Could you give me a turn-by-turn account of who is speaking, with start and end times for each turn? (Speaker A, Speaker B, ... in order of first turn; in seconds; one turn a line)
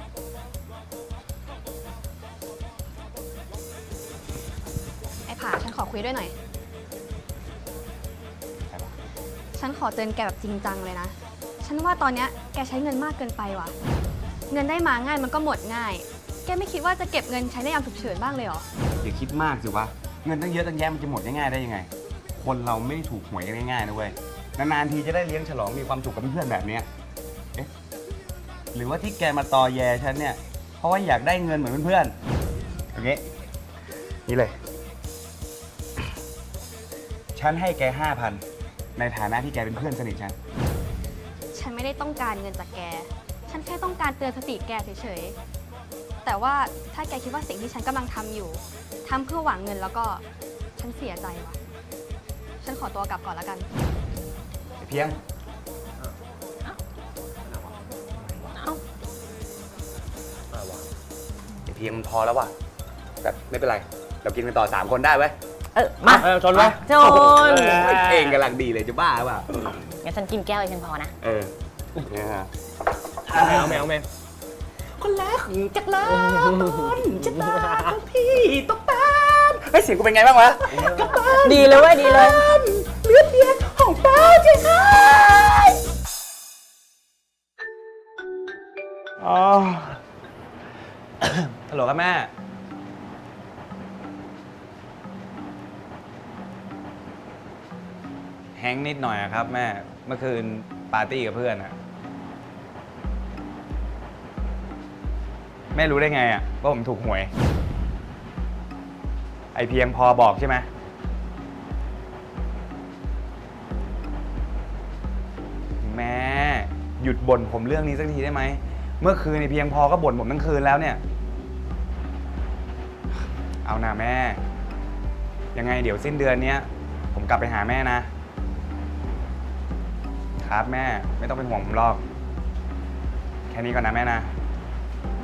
Speaker A: 5.3-6.3
Speaker B: 8.6-8.9
Speaker A: 9.5-13.7
Speaker A: 14.5-18.6
Speaker B: 19.0-26.9
Speaker B: 28.7-32.1
Speaker B: 32.9-33.2
Speaker B: 34.2-34.6
Speaker B: 37.3-38.4
Speaker B: 39.0-40.4
Speaker A: 41.5-45.4
Speaker A: 46.2-50.2
Speaker A: 50.8-51.6
Speaker A: 52.6-53.7
Speaker B: 54.8-55.2
Speaker C: 57.5-57.8
Speaker D: 58.5-58.8
Speaker C: 60.5-60.9
Speaker B: 61.6-62.5
Speaker B: 63.2-65.3
Speaker D: 65.7-67.8
Speaker C: 66.0-68.4
Speaker B: 66.5-69.5
Speaker D: 70.0-71.1
Speaker B: 71.2-72.5
Speaker B: 73.3-73.8
Speaker C: 73.3-74.1
Speaker B: 75.0-85.8
Speaker C: 76.1-78.0
Speaker C: 80.8-81.1
Speaker D: 81.4-82.5
Speaker B: 89.2-90.0
Speaker B: 91.2-92.3
Speaker B: 98.5-101.8
Speaker B: 105.7-107.3
Speaker B: 109.5-110.7
Speaker B: 115.8-121.0
Speaker B: 123.6-124.4
Speaker B: 125.5-128.1
Speaker B: 130.4-132.0
Speaker B: 133.5-134.3